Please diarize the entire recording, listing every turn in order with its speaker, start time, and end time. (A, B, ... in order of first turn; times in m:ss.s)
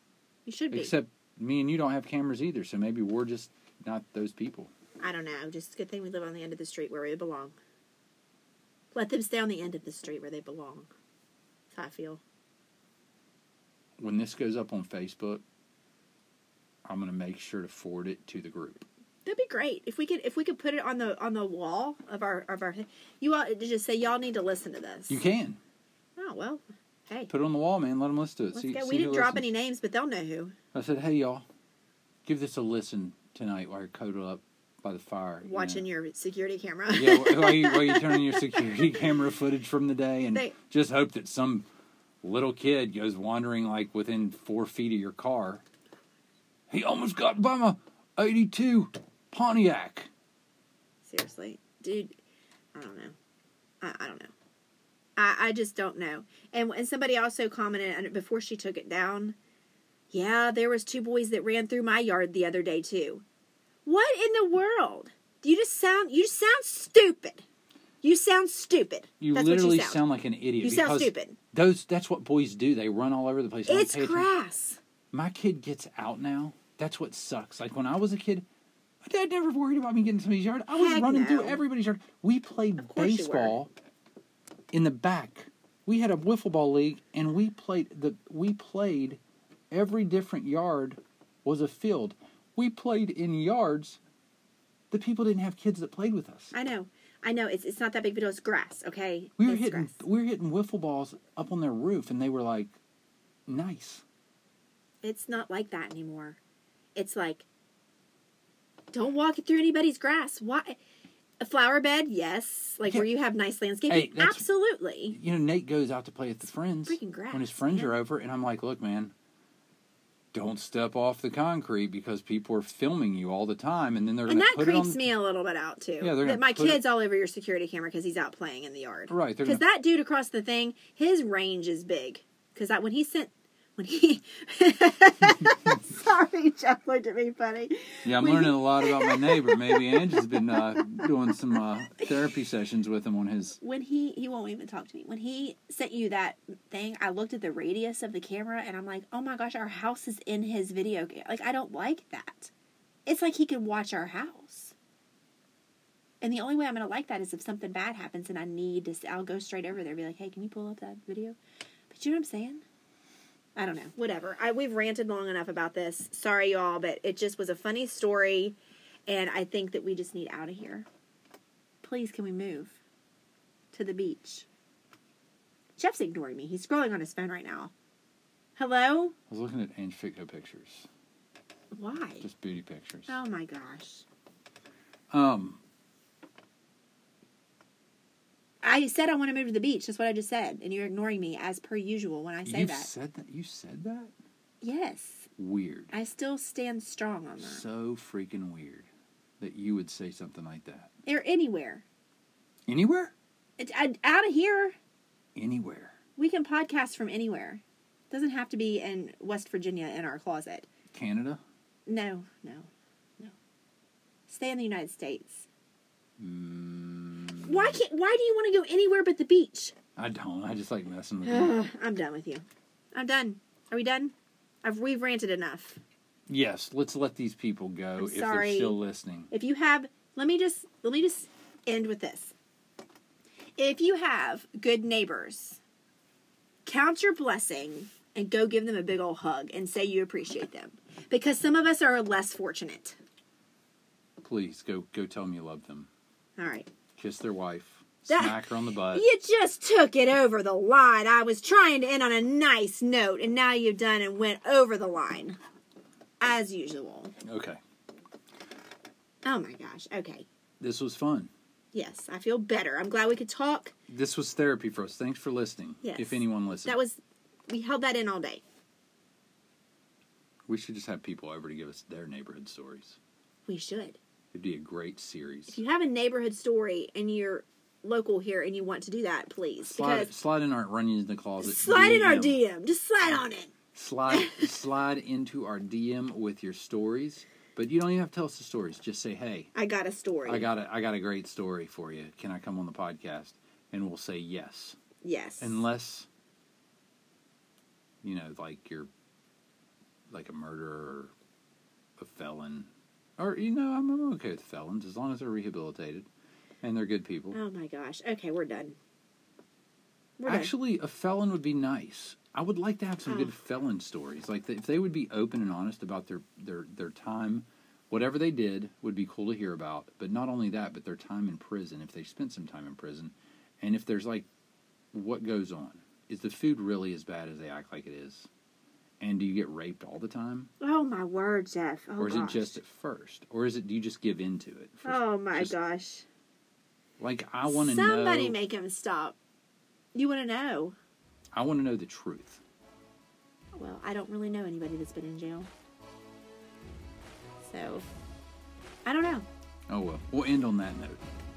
0:00.4-0:00.9 A
0:00.7-0:04.7 B
0:05.0-0:07.6 A
0:08.9-0:10.9 A
0:11.7-0:12.2 A
0:14.0-0:15.4 B
0:16.8-0:18.8 B
0:19.2-0:25.2 A
0:25.1-0:25.6 B
0:26.2-0:27.3 A
0:27.3-0:29.5 B
0:28.5-0:30.6 A
0:30.7-0:31.4 B
0:32.2-0:35.9 B
0:35.4-0:39.1 A
0:36.9-0:41.6 B
0:42.2-0:45.6 B
0:46.7-0:50.1 B
0:51.0-0:52.2 A
0:52.7-0:53.1 A
0:53.8-0:54.3 A
0:55.2-0:59.4 A
1:00.1-1:03.2 A
1:03.8-1:07.4 A
1:08.0-1:10.0 A
1:09.2-1:14.3 B
1:10.6-1:11.4 A
1:13.7-1:14.8 A
1:15.1-1:18.4 B
1:19.0-1:23.7 B
1:20.7-1:21.6 A
1:22.8-1:23.6 A
1:24.7-1:29.2 B
1:29.7-1:34.0 B
1:34.9-1:36.5 B
1:36.5-1:40.0 A
1:39.4-1:42.8 B
1:43.5-1:44.0 B
1:45.0-1:46.4 A
1:46.9-1:47.4 A
1:48.9-1:50.8 A
1:51.4-1:55.2 A
1:53.9-1:54.5 B
1:55.1-1:59.1 B
1:56.9-1:57.9 A
2:00.3-2:05.0 B
2:04.2-2:22.1 A
2:06.0-2:06.8 B
2:09.1-2:09.6 B
2:15.2-2:15.8 B
2:18.0-2:23.6 B
2:23.6-2:32.5 A
2:33.0-2:34.7 A
2:36.2-2:41.4 A
2:41.9-2:42.6 A
2:43.5-2:50.9 A
2:51.8-2:52.8 A
2:53.7-2:54.5 A
2:55.8-2:57.7 A
2:58.6-2:59.1 A
2:59.3-3:00.9 B
3:01.7-3:02.2 A
3:02.2-3:03.2 B
3:03.1-3:04.0 A
3:05.1-3:05.6 B
3:08.6-3:12.9 A
3:12.4-3:14.1 B
3:14.6-3:15.3 A
3:15.4-3:15.9 B
3:15.9-3:17.6 A
3:17.4-3:18.9 B
3:19.4-3:20.9 B
3:21.0-3:21.8 A
3:22.7-3:23.1 B
3:23.6-3:24.8 A
3:25.3-3:26.0 B
3:26.2-3:30.7 A
3:30.9-3:31.4 B
3:31.8-3:33.3 A
3:34.3-3:35.5 A
3:36.2-3:37.8 B
3:37.4-3:39.8 A
3:40.0-3:41.6 B
3:41.2-3:45.8 A
3:46.3-3:49.3 B
3:48.0-3:48.8 A
3:49.3-3:52.3 A
3:53.6-3:55.6 A
3:56.6-4:03.0 A
4:04.2-4:05.9 B
4:06.4-4:06.7 A
4:07.0-4:09.0 B
4:08.1-4:15.4 A
4:16.2-4:17.1 A
4:17.2-4:17.6 B
4:19.2-4:20.2 A
4:20.6-4:21.3 B
4:21.7-4:23.7 A
4:23.9-4:26.8 B
4:25.8-4:28.4 A
4:30.5-4:33.0 B
4:33.4-4:34.0 A
4:34.3-4:35.6 B
4:35.5-4:40.1 A
4:39.6-4:42.4 B
4:41.4-4:43.5 A
4:43.7-4:49.5 B
4:44.1-4:44.6 A
4:49.5-4:50.5 A
4:50.2-4:54.8 B
4:55.0-4:55.6 A
4:55.4-4:56.1 B
4:58.0-4:58.9 B
5:00.1-5:01.1 B
5:02.0-5:06.1 B
5:06.6-5:07.4 B
5:07.3-5:08.8 A
5:10.2-5:10.5 A
5:10.2-5:24.3 B
5:13.1-5:13.3 A
5:24.9-5:28.3 B
5:29.0-5:30.5 B
5:30.6-5:32.6 A
5:32.0-5:35.5 B
5:34.8-5:36.0 A
5:37.0-5:38.4 B
5:37.4-5:39.2 A
5:39.9-5:40.8 A
5:41.3-5:42.4 B
5:43.5-5:45.5 A
5:47.4-5:47.9 A
5:48.8-5:49.2 A
5:49.7-5:51.0 B